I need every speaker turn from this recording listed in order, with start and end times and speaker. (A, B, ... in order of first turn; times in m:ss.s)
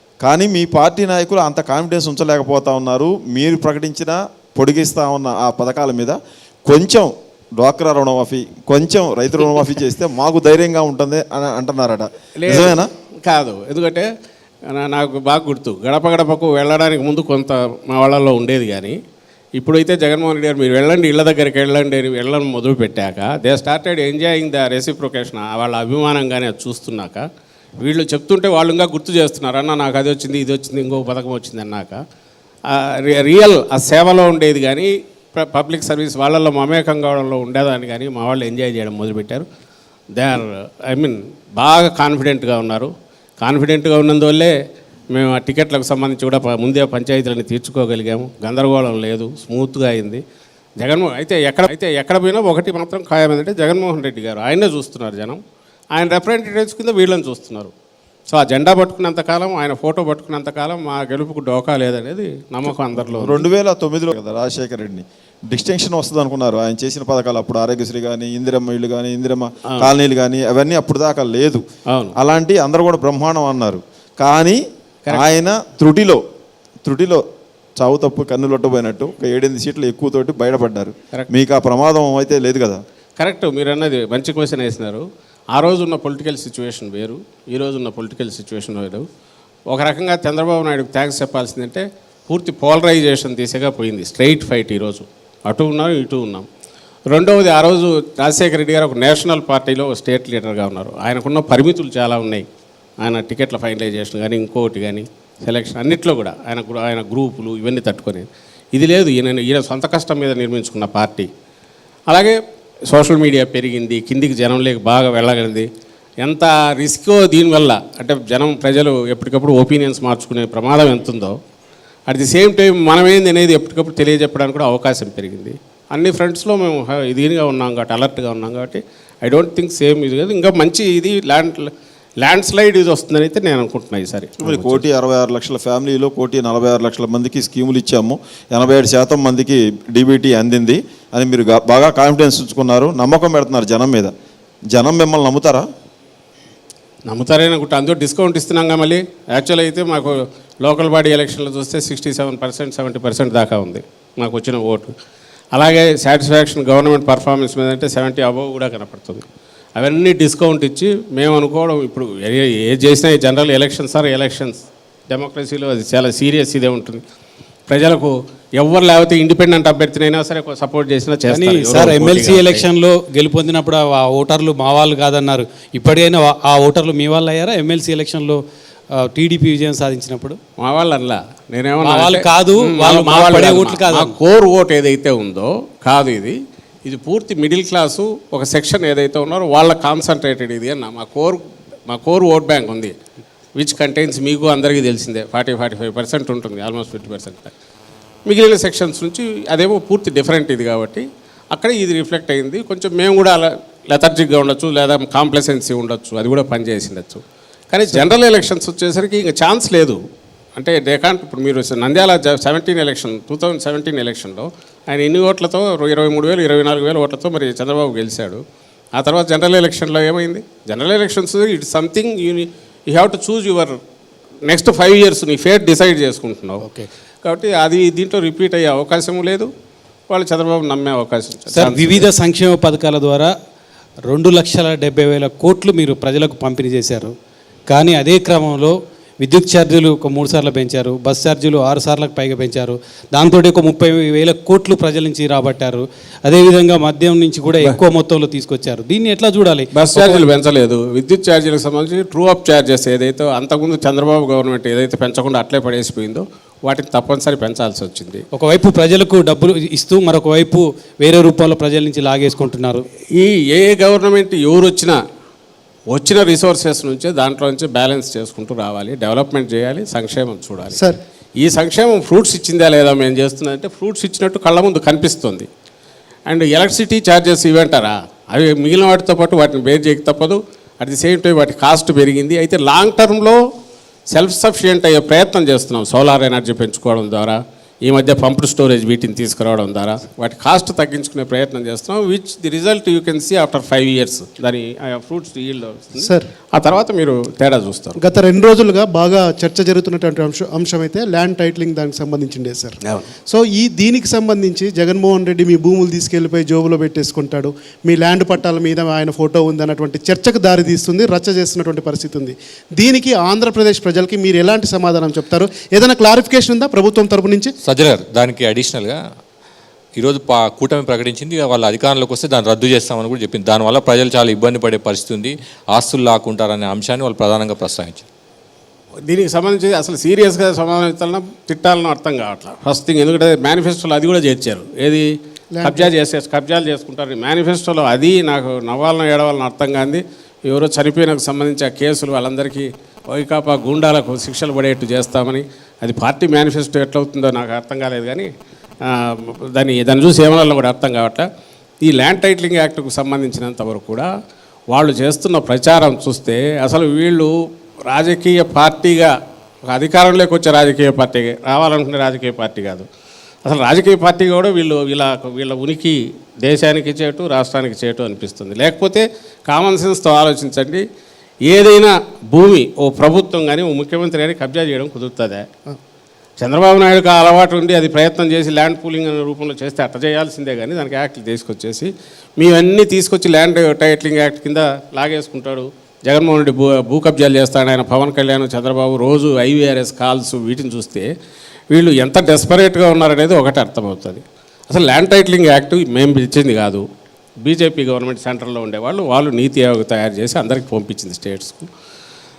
0:00.2-0:12.9 A
0:12.4-0:14.1 B
0:14.7-0:19.0 B
0:19.6-0:27.2 B
0:27.8-0:32.0 B
0:32.7-0:39.4 B
0:40.1-0:44.5 B
0:45.1-0:50.2 B
0:50.8-0:55.4 B
0:55.9-0:57.7 B
0:58.3-1:03.4 B
1:03.1-1:11.6 A
1:12.2-1:16.2 A
1:16.8-1:17.2 A
1:17.8-1:22.8 A
1:23.2-1:29.0 B
1:29.7-1:36.5 B
1:37.1-1:42.4 B
1:43.0-1:51.3 B
1:52.1-1:52.4 B
1:52.9-1:55.7 B
1:56.2-2:01.4 B
2:02.1-2:11.7 B
2:12.2-2:14.8 B
2:14.4-2:24.1 A
2:24.7-2:25.6 A
2:27.1-2:34.9 B
2:35.5-2:39.2 B
2:39.8-2:47.0 B
2:47.7-2:52.6 B
2:51.3-2:58.4 C
2:59.0-3:00.4 C
3:00.6-3:12.9 B
3:01.8-3:04.2 C
3:13.6-3:17.5 B
3:18.3-3:30.0 B
3:30.6-3:38.4 B
3:39.0-3:43.8 B
3:44.5-3:46.7 B
3:47.2-3:49.5 B
3:50.1-3:52.1 B
3:51.5-3:53.3 C
3:54.1-3:57.1 C
3:57.7-4:10.2 C
4:09.7-4:18.2 B
4:18.3-4:22.8 C
4:23.1-4:25.0 B
4:25.9-4:30.8 B
4:31.4-4:35.5 B
4:36.3-4:43.4 B
4:44.1-4:58.0 B
4:56.0-4:56.3 D
4:58.0-5:17.5 D
5:02.8-5:03.1 B
5:17.6-5:19.0 E
5:20.0-5:28.0 E
5:29.1-5:35.1 B
5:35.5-5:35.9 D
5:35.6-5:48.3 B
5:48.8-5:51.2 B
5:51.8-5:54.1 B
5:54.7-5:57.3 B
5:57.9-5:59.1 B
5:59.7-6:02.8 B
6:03.4-6:10.8 B
6:11.5-6:15.4 B
6:16.4-6:31.1 B
6:31.7-6:36.8 B
6:37.4-6:41.7 B